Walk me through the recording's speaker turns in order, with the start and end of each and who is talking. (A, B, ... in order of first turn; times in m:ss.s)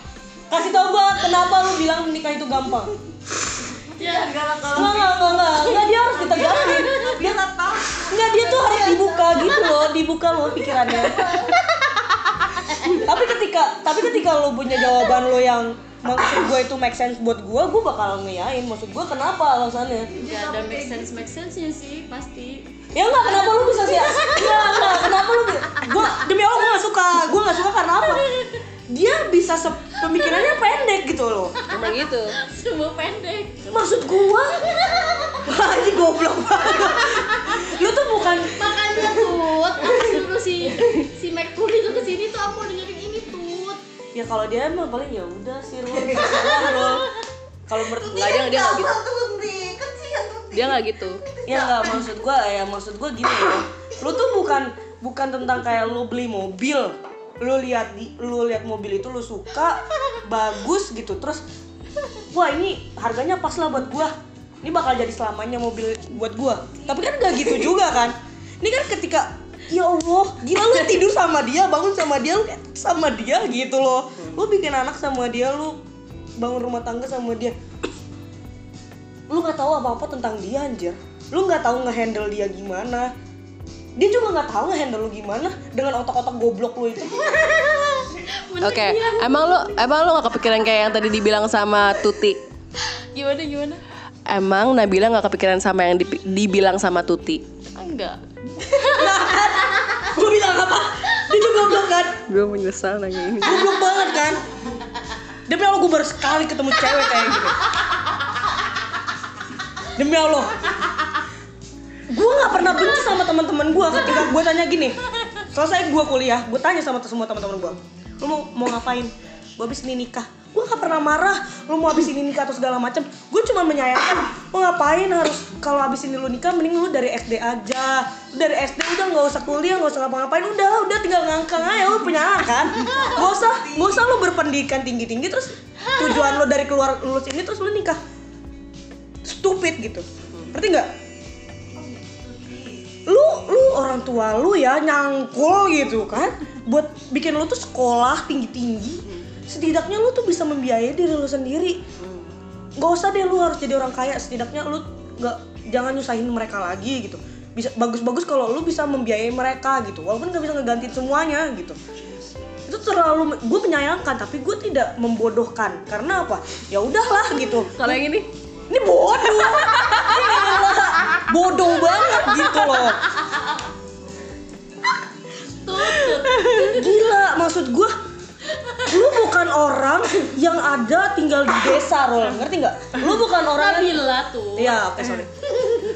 0:00.5-0:03.0 A
0:04.0-0:09.5 B
0:04.0-0:05.1 C
0:04.7-0:07.4 A
0:06.5-0:07.1 C
0:08.1-0:11.5 A
0:11.2-0:13.0 C
0:12.9-0:20.1 A
0:20.1-0:21.1 B
0:20.2-0:22.6 C
0:22.9-0:28.3 A
0:23.2-0:25.1 C
0:28.9-0:31.6 A
0:31.7-0:32.4 D
0:32.4-0:33.6 C
0:33.6-0:34.6 A
0:34.6-0:35.4 C
0:35.4-0:39.1 A
0:37.0-0:43.8 C
0:39.8-0:40.2 B
0:44.1-0:47.1 A
0:45.9-0:46.6 B
0:46.6-0:47.1 C
0:47.7-0:48.4 A
0:48.0-0:52.0 B
0:48.1-0:49.0 D
0:50.5-0:51.2 D
0:51.5-1:01.4 A
1:02.3-1:15.8 A
1:16.4-1:17.6 A
1:19.3-1:23.1 A
1:24.0-1:27.6 A
1:27.3-1:29.8 C
1:28.6-1:32.4 D
1:33.1-1:33.8 C
1:34.3-1:37.4 D
1:37.8-1:39.2 C
1:38.8-1:42.2 A
1:42.3-1:43.7 D
1:43.4-1:44.4 A
1:45.5-1:47.6 A
1:50.0-1:50.7 A
1:52.1-1:55.0 A
1:55.5-2:18.0 A
2:12.8-2:14.1 B
2:19.2-2:20.9 A
2:21.7-2:22.9 B
2:23.1-2:31.8 A
2:32.0-2:32.3 D
2:32.8-2:41.8 A
2:42.7-2:48.0 A
2:47.8-2:48.3 D
2:48.7-2:53.0 A
2:49.6-2:50.2 D
2:55.6-2:56.6 C
2:56.3-2:56.7 D
2:56.6-2:57.9 A
2:58.8-3:05.3 A
3:03.6-3:04.8 C